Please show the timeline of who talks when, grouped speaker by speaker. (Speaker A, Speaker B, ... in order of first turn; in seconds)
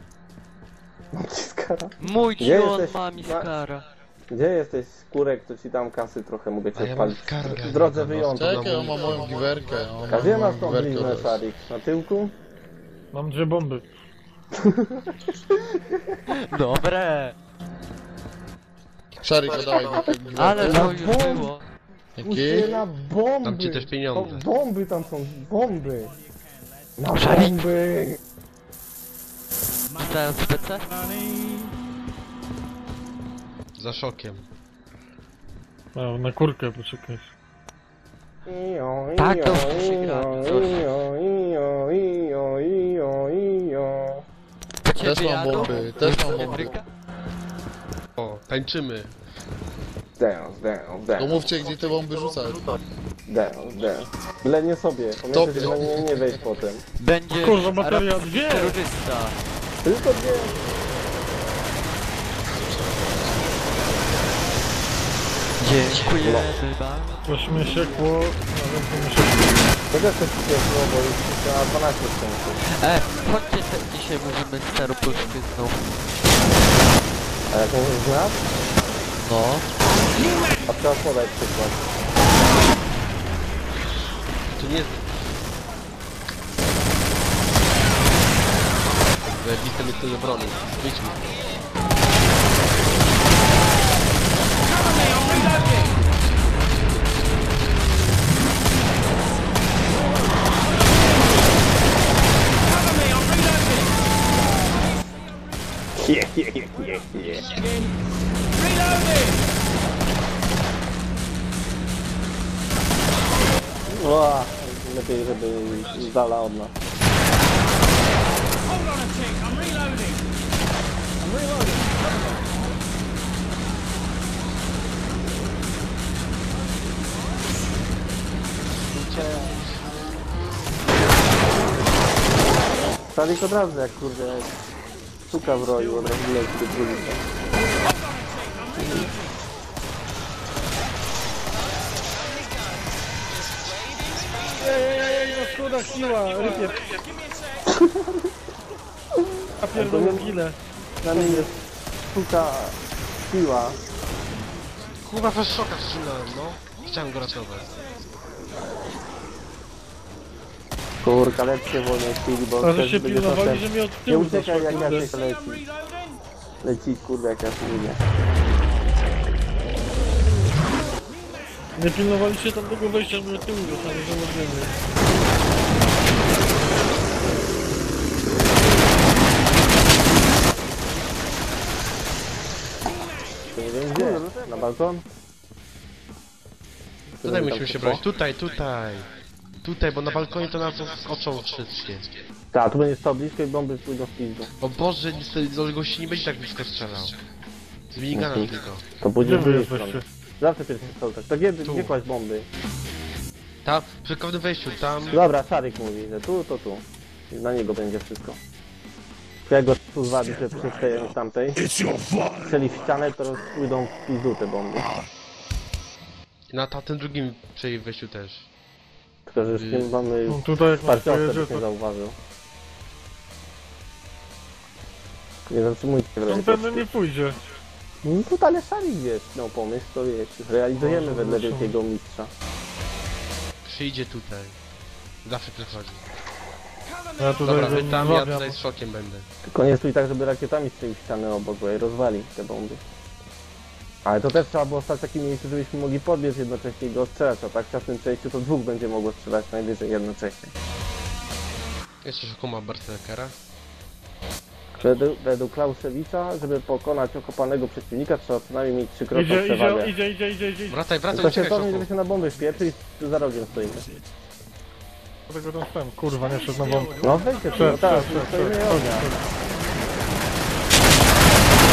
Speaker A: 1.2-3.5, 4.3-8.7, 10.1-12.3, 14.6-15.4, 20.6-21.5, 22.2-26.2, 27.0-28.2, 38.5-44.2, 50.2-51.5, 53.3-56.8, 59.8-60.6, 69.9-72.6, 77.5-78.4, 80.7-81.8, 106.0-107.6, 113.9-116.7, 133.1-134.5, 135.3-137.2, 138.8-139.1, 147.7-148.1, 149.7-150.3, 151.0-151.5, 152.1-153.8, 161.0-165.7, 166.6-168.0, 183.6-185.1, 187.1-188.0, 192.5-194.5, 198.1-202.5, 205.1-208.4, 209.5-211.6, 212.4-214.9, 219.3-222.2, 225.5-226.9, 228.0-232.3, 239.4-242.8, 244.1-250.5, 254.8-259.9, 261.1-263.9, 267.0-269.1
Speaker B: 2.0-3.9, 16.3-17.4, 20.4-21.6, 27.1-27.5, 29.9-30.9, 39.2-40.9, 44.9-46.8, 57.0-59.4, 65.6-67.7, 72.8-75.9, 79.2-79.7
Speaker C: 6.8-9.4, 23.4-24.4, 33.8-34.4, 48.2-49.1, 84.6-85.0, 89.4-91.3, 128.9-129.8, 155.0-157.9, 187.2-189.1, 189.6-192.2, 194.6-197.2, 197.9-198.8, 201.6-201.9, 203.7-205.2, 216.5-218.5, 219.4-219.9, 233.7-234.6, 235.2-236.0, 237.4-239.3, 252.0-253.3, 260.7-261.9
Speaker D: 8.3-11.4, 19.2-20.9, 22.2-22.7, 45.0-46.7, 51.2-52.8, 55.3-56.3
Speaker E: 13.1-13.8, 36.0-37.3, 57.4-58.8, 67.2-69.5, 144.6-146.9, 149.6-150.6, 151.1-151.5, 162.6-165.1, 171.8-174.8, 199.2-200.1, 220.3-221.6, 226.3-227.4, 230.8-231.8, 237.2-238.6, 259.1-260.8, 265.3-269.2